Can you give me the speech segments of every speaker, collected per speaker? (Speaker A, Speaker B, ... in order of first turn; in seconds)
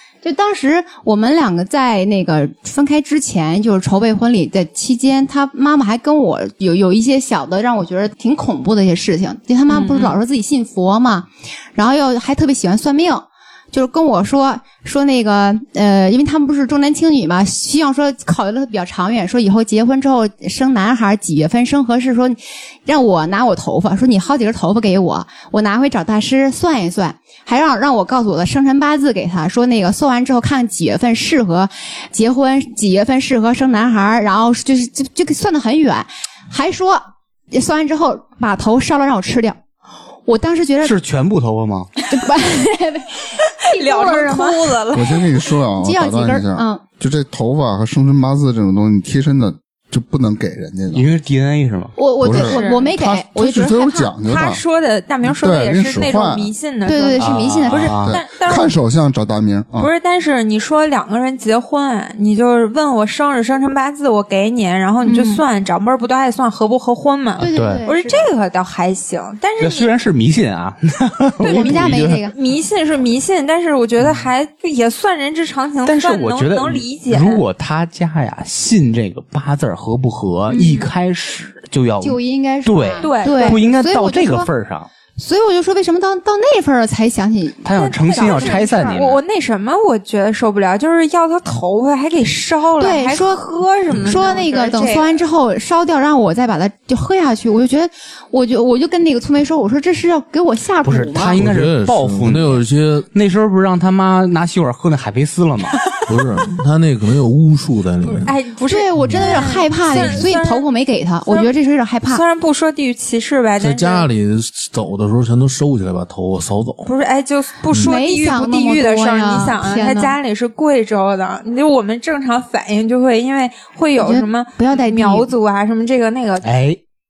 Speaker A: 0.2-39.6, 40.2-40.9, 42.1-44.8, 45.8-46.8, 52.0-54.1, 56.9-58.0, 65.0-65.4, 67.4-68.2, 71.4-72.3, 82.0-84.5, 85.2-88.9, 92.8-101.4, 108.7-112.2, 117.8-120.2, 124.0-125.3
Speaker B: 9.7-10.2, 43.7-45.4, 52.3-52.9, 54.2-58.7, 59.8-69.9, 71.5-77.4, 80.5-80.9, 83.0-83.6, 87.8-95.2, 108.0-110.6, 111.3-111.5, 112.1-114.1, 116.8-126.5
Speaker C: 40.8-41.9, 50.9-51.9, 57.2-58.2, 67.5-67.8, 69.6-72.2, 75.8-84.9, 87.6-89.2, 100.8-105.8, 126.4-126.8
Speaker D: 44.9-51.1, 52.2-54.6, 55.2-56.5, 58.0-59.9
Speaker E: 101.4-103.1, 106.1-108.3, 109.0-109.3, 113.6-116.9